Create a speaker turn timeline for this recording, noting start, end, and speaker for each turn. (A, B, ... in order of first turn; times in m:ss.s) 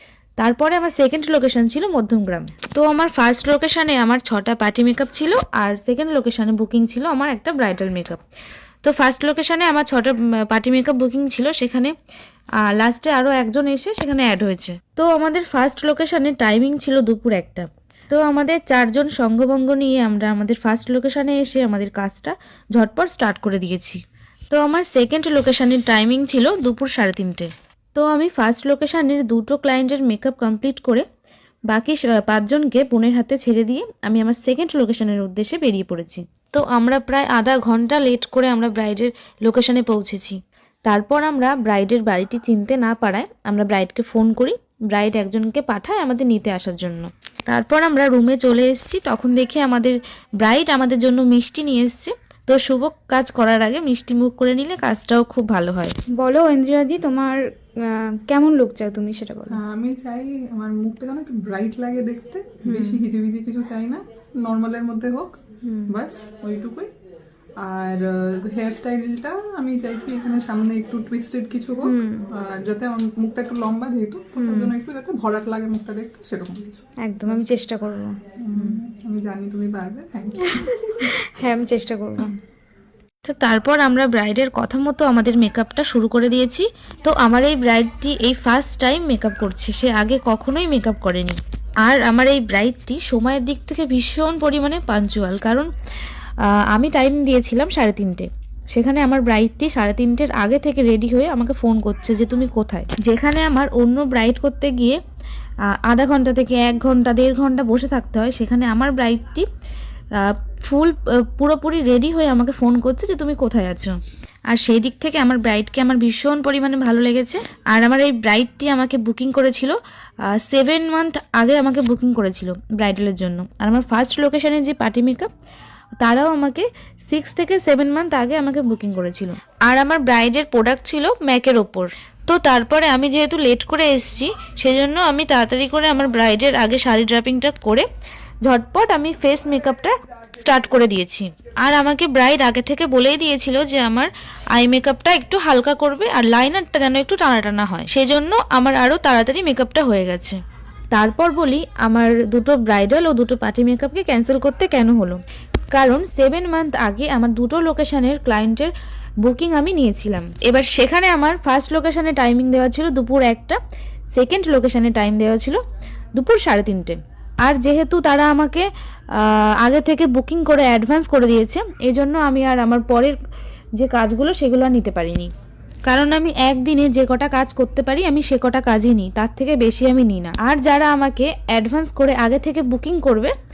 0:00.4-0:08.2 A
0:08.8-0:11.9 A
0:12.6-0:31.1 A
0:31.7-0:55.9 A
0:56.2-0:59.6 B
0:59.5-1:06.9 C
1:02.6-1:03.0 B
1:05.6-1:06.0 B
1:07.6-1:17.4 C
1:11.8-1:12.3 B
1:14.4-1:14.7 B
1:17.0-1:18.8 B
1:18.4-1:21.1 C
1:20.6-1:22.4 B
1:23.2-1:35.7 A
1:36.5-1:45.0 A
1:45.7-1:49.5 A
1:50.2-1:54.0 A
1:54.5-1:59.8 A
2:00.3-2:05.3 A
2:06.0-2:17.9 A
2:18.4-2:30.4 A
2:30.9-2:35.2 A
2:35.7-2:38.7 A
2:39.2-2:43.6 A
2:44.1-2:45.6 A
2:46.2-2:53.2 A
2:53.8-2:55.3 A
2:55.9-3:03.3 A